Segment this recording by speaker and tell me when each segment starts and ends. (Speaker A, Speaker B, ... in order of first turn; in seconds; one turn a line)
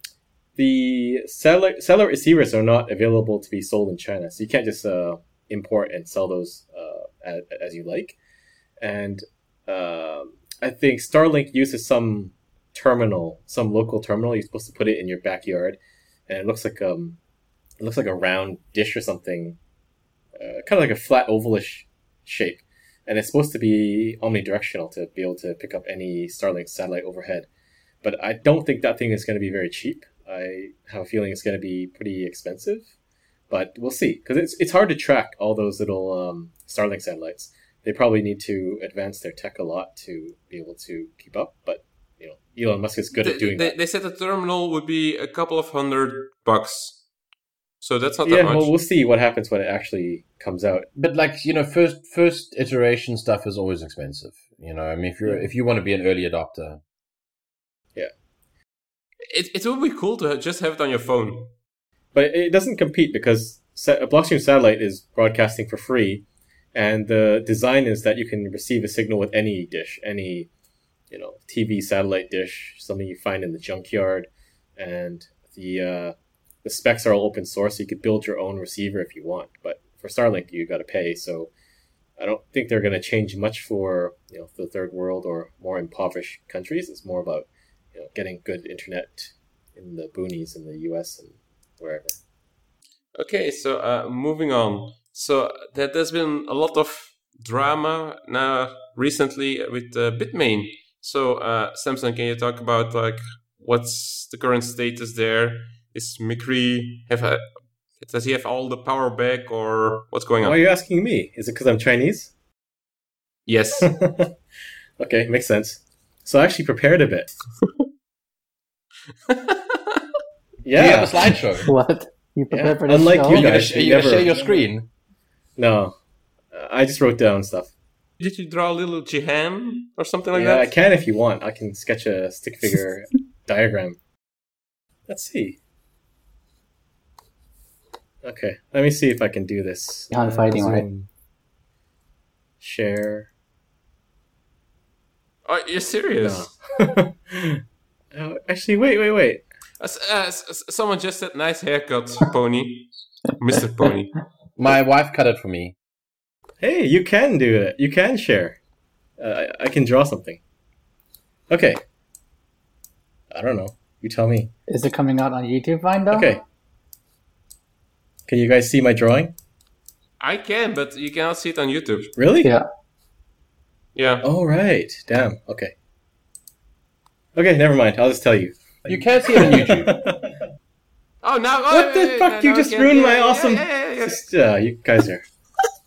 Speaker A: 0.6-8.2
Speaker A: 8.8-17.2
Speaker A: 17.8-19.6
Speaker A: 20.4-27.5
Speaker A: 28.0-32.9
Speaker A: 33.5-43.8
Speaker B: 43.2-47.0
Speaker B: 47.8-48.7
Speaker A: 48.2-50.9
Speaker C: 51.0-56.8
Speaker B: 59.3-61.5
Speaker A: 62.1-70.5
Speaker A: 71.1-81.5
Speaker A: 82.2-92.2
Speaker B: 93.2-107.4
Speaker B: 108.0-110.6
Speaker A: 110.4-112.3
Speaker B: 113.5-113.9
Speaker A: 113.8-114.3
Speaker A: 115.0-117.3
Speaker B: 119.3-120.0
Speaker A: 120.6-121.4
Speaker C: 120.7-121.7
Speaker D: 121.7-123.5
Speaker A: 122.5-124.4
Speaker C: 123.3-124.9
Speaker A: 125.6-126.0
Speaker A: 126.5-127.7
Speaker B: 128.2-130.7
Speaker A: 130.3-134.0
Speaker A: 135.1-135.6
Speaker A: 138.2-141.1
Speaker D: 140.1-140.8
Speaker A: 142.6-143.3
Speaker B: 145.4-146.5
Speaker A: 146.2-147.6
Speaker A: 148.1-149.4
Speaker B: 149.8-154.1
Speaker C: 154.6-155.7
Speaker A: 156.6-158.6
Speaker A: 159.2-160.4
Speaker A: 161.5-161.8
Speaker A: 163.3-164.5
Speaker D: 164.7-166.3
Speaker A: 166.1-166.4
Speaker A: 168.3-169.3
Speaker B: 170.2-172.1
Speaker A: 172.2-172.5
Speaker B: 173.9-174.2
Speaker A: 174.2-175.7
Speaker A: 177.3-180.1
Speaker C: 178.8-179.9
Speaker B: 181.2-184.2
Speaker A: 181.7-185.2